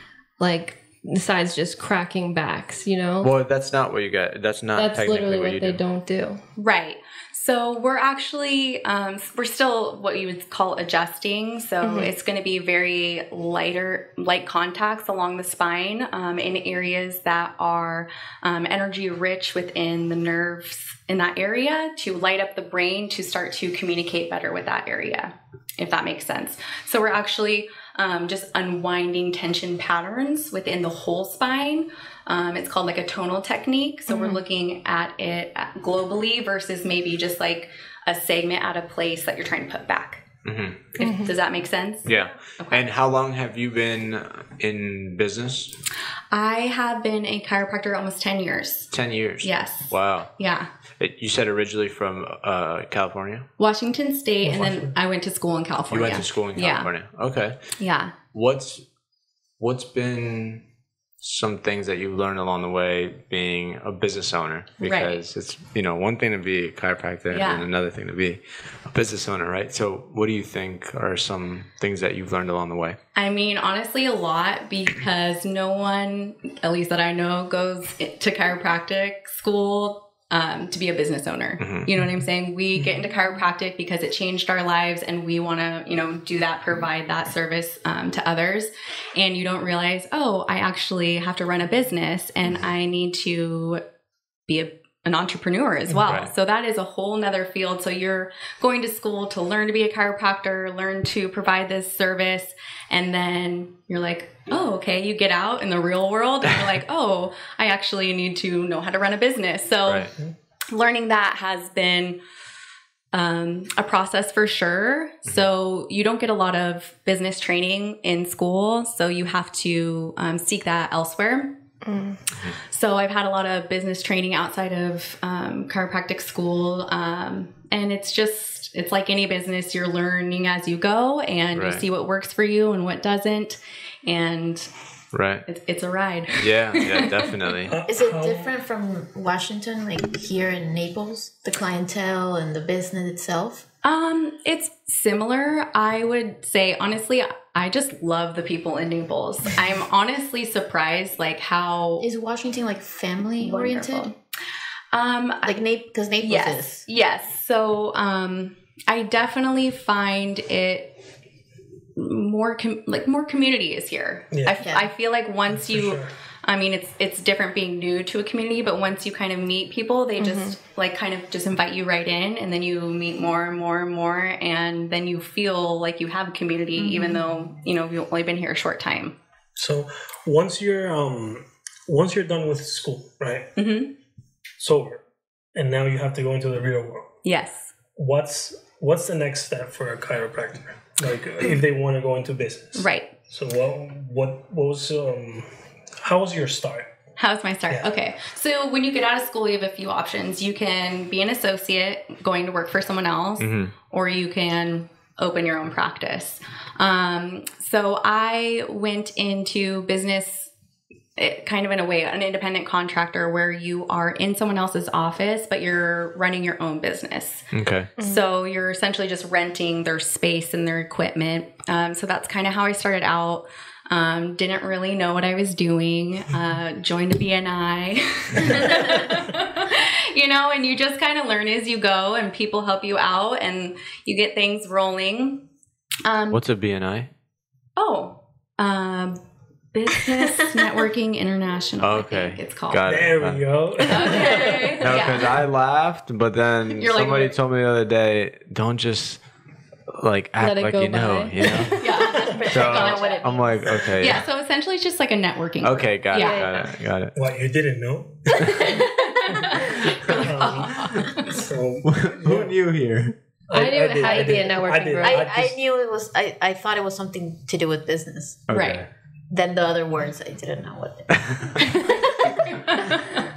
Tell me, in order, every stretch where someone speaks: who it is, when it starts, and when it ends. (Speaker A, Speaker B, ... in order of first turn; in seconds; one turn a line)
Speaker A: 0.4-3.3
Speaker B: 3.2-5.8
Speaker A: 4.8-6.4
Speaker C: 6.6-40.2
Speaker A: 11.8-12.1
Speaker A: 34.1-34.4
Speaker B: 40.4-40.9
Speaker C: 41.0-42.9
Speaker A: 41.0-41.3
Speaker B: 42.0-45.8
Speaker C: 46.3-48.9
Speaker B: 48.9-50.3
Speaker C: 49.4-50.7
Speaker B: 51.0-53.5
Speaker C: 53.6-56.9
Speaker D: 54.4-54.9
Speaker B: 55.9-57.6
Speaker C: 57.8-58.1
Speaker B: 58.3-58.8
Speaker B: 59.6-60.6
Speaker B: 61.2-73.0
Speaker C: 64.8-65.2
Speaker C: 67.3-67.7
Speaker C: 73.1-93.8
Speaker B: 81.6-81.9
Speaker C: 94.5-110.1
Speaker B: 96.0-96.3
Speaker C: 110.7-112.2
Speaker C: 113.1-121.6
Speaker A: 121.8-122.2
Speaker C: 122.7-134.7
Speaker B: 131.5-131.8
Speaker B: 135.1-135.4
Speaker C: 135.4-137.3
Speaker B: 136.4-137.8
Speaker D: 137.7-138.5
Speaker E: 137.9-143.6
Speaker C: 143.8-152.1
Speaker E: 152.0-154.1
Speaker C: 153.4-154.2
Speaker C: 154.9-155.6
Speaker E: 155.4-156.8
Speaker C: 156.2-161.0
Speaker C: 161.9-179.1
Speaker D: 164.3-164.6
Speaker E: 164.6-164.9
Speaker D: 165.5-166.1
Speaker A: 170.2-170.5
Speaker E: 176.8-177.2
Speaker D: 179.5-183.5
Speaker C: 183.6-183.9
Speaker D: 184.6-185.0
Speaker D: 185.5-187.1
Speaker C: 187.2-187.7
Speaker D: 187.9-196.9
Speaker C: 192.7-193.1
Speaker C: 197.2-210.5
Speaker B: 203.4-203.7
Speaker C: 211.2-235.4
Speaker B: 217.5-217.9
Speaker A: 218.0-218.2
Speaker C: 236.0-236.4
Speaker B: 236.3-237.1
Speaker C: 237.8-239.2
Speaker C: 239.7-242.8
Speaker B: 241.8-249.2
Speaker D: 242.8-244.8
Speaker C: 243.9-245.3
Speaker C: 246.8-247.3
Speaker B: 249.9-254.2
Speaker C: 250.4-253.4
Speaker A: 250.4-250.8
Speaker A: 251.4-251.8
Speaker E: 252.0-254.1
Speaker C: 254.0-256.7
Speaker B: 255.6-257.1
Speaker A: 256.1-256.6
Speaker D: 257.1-258.7
Speaker C: 258.6-261.4
Speaker D: 259.5-262.5
Speaker B: 261.8-263.1
Speaker D: 263.5-265.6
Speaker A: 263.5-265.2
Speaker E: 263.9-268.5
Speaker B: 268.5-268.9
Speaker C: 268.5-268.9
Speaker E: 269.3-272.9
Speaker B: 271.1-271.6